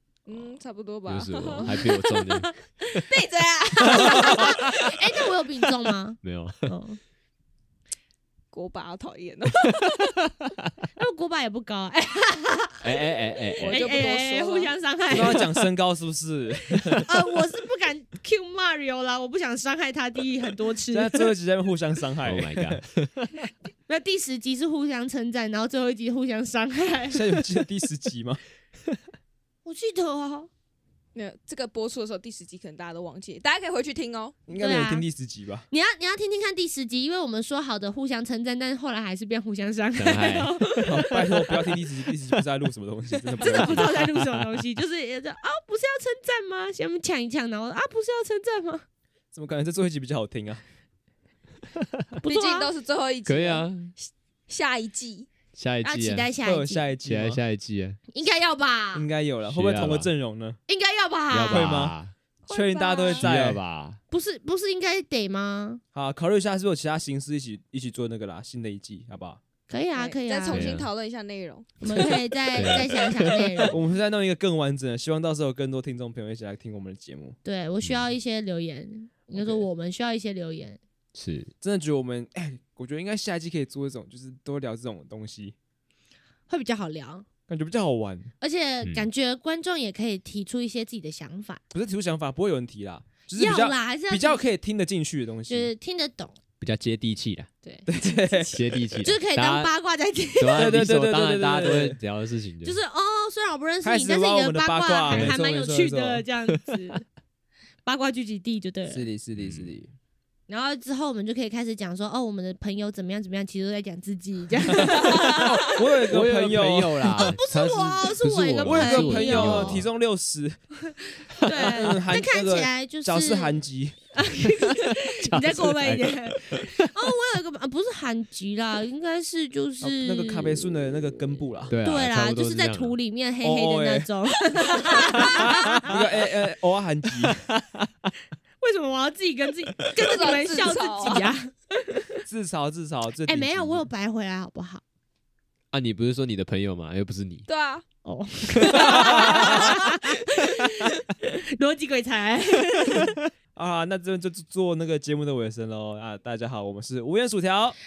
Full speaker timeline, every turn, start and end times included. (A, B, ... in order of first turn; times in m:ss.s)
0:00.3-0:02.3 A
0:01.1-0:03.0 B
0:02.9-0:05.0 A
0:03.9-0:07.0 C
0:03.9-0:04.6 B
0:06.2-0:06.7 B
0:08.5-0:10.2 A
0:10.4-0:10.7 B
0:11.0-0:12.8 C
0:12.8-0:14.0 B
0:13.6-0:14.8 A
0:13.7-0:15.5 C
0:15.1-0:17.1 D
0:17.0-0:21.4 C
0:20.9-0:22.8 D
0:22.2-0:23.3 B
0:23.9-0:27.4 C
0:27.1-0:28.4 D
0:29.6-0:30.5 C
0:31.2-0:34.4 A
0:34.5-0:35.7 D
0:34.5-0:35.1 C
0:35.7-0:41.4 C
0:40.0-0:40.6 B
0:40.8-0:44.1 D
0:43.4-0:48.8 C
0:43.7-0:44.6 B
0:49.3-0:50.6 D
0:51.7-0:52.2 B
0:52.2-0:52.7 C
0:52.2-0:55.3 A
0:53.3-0:53.9 B
0:55.5-0:56.3 B
0:55.8-0:56.9 C
0:56.4-0:57.4 D
0:57.0-0:58.0 B
0:58.1-0:59.1 C
0:59.0-1:00.6 D
0:59.5-1:00.1 B
1:00.7-1:01.8 C
1:01.3-1:02.1 B
1:01.5-1:02.0 D
1:02.5-1:03.3 A
1:02.5-1:03.6 D
1:03.2-1:04.0 B
1:04.1-1:05.8 C
1:05.9-1:09.4 D
1:09.7-1:10.7 C
1:10.0-1:12.2 A
1:10.5-1:10.9 B
1:11.8-1:13.8 C
1:12.5-1:13.8 B
1:13.7-1:17.4 D
1:17.4-1:20.8 C
1:17.8-1:18.1 B
1:19.4-1:19.6 D
1:21.1-1:21.5 B
1:21.6-1:25.6 D
1:26.5-1:27.2 C
1:27.5-1:28.3 D
1:28.4-1:31.6 C
1:28.8-1:29.1 B
1:31.7-1:35.7 D
1:33.4-1:34.4 C
1:35.5-1:36.4 C
1:36.6-1:37.5 B
1:37.9-1:39.1 D
1:38.5-1:39.7 B
1:39.0-1:40.8 C
1:40.4-1:42.8 B
1:40.6-1:42.0 D
1:42.6-1:47.0 C
1:43.8-1:46.2 D
1:45.1-1:45.4 B
1:46.6-1:47.0 B
1:47.8-1:49.1 C
1:48.9-1:49.9 D
1:49.4-1:49.7 B
1:50.5-1:55.6 C
1:55.0-1:57.4 D
1:55.0-1:59.9 B
1:57.2-1:59.8 C
1:58.6-2:00.7 D
2:01.4-2:03.6 C
2:01.4-2:01.9 B
2:01.5-2:04.0 D
2:04.2-2:15.9 C
2:04.5-2:07.1 B
2:09.8-2:11.8 D
2:11.7-2:13.0 B
2:13.4-2:14.1 D
2:14.9-2:17.4 D
2:15.0-2:15.8 B
2:17.5-2:18.1 B
2:18.6-2:22.2 C
2:20.0-2:21.3 A
2:22.3-2:23.9 D
2:23.2-2:24.8 C
2:25.7-2:27.5 B
2:27.5-2:27.8 A
2:28.0-2:33.2 C
2:28.6-2:29.7 B
2:28.8-2:29.8 A
2:33.6-2:37.8 D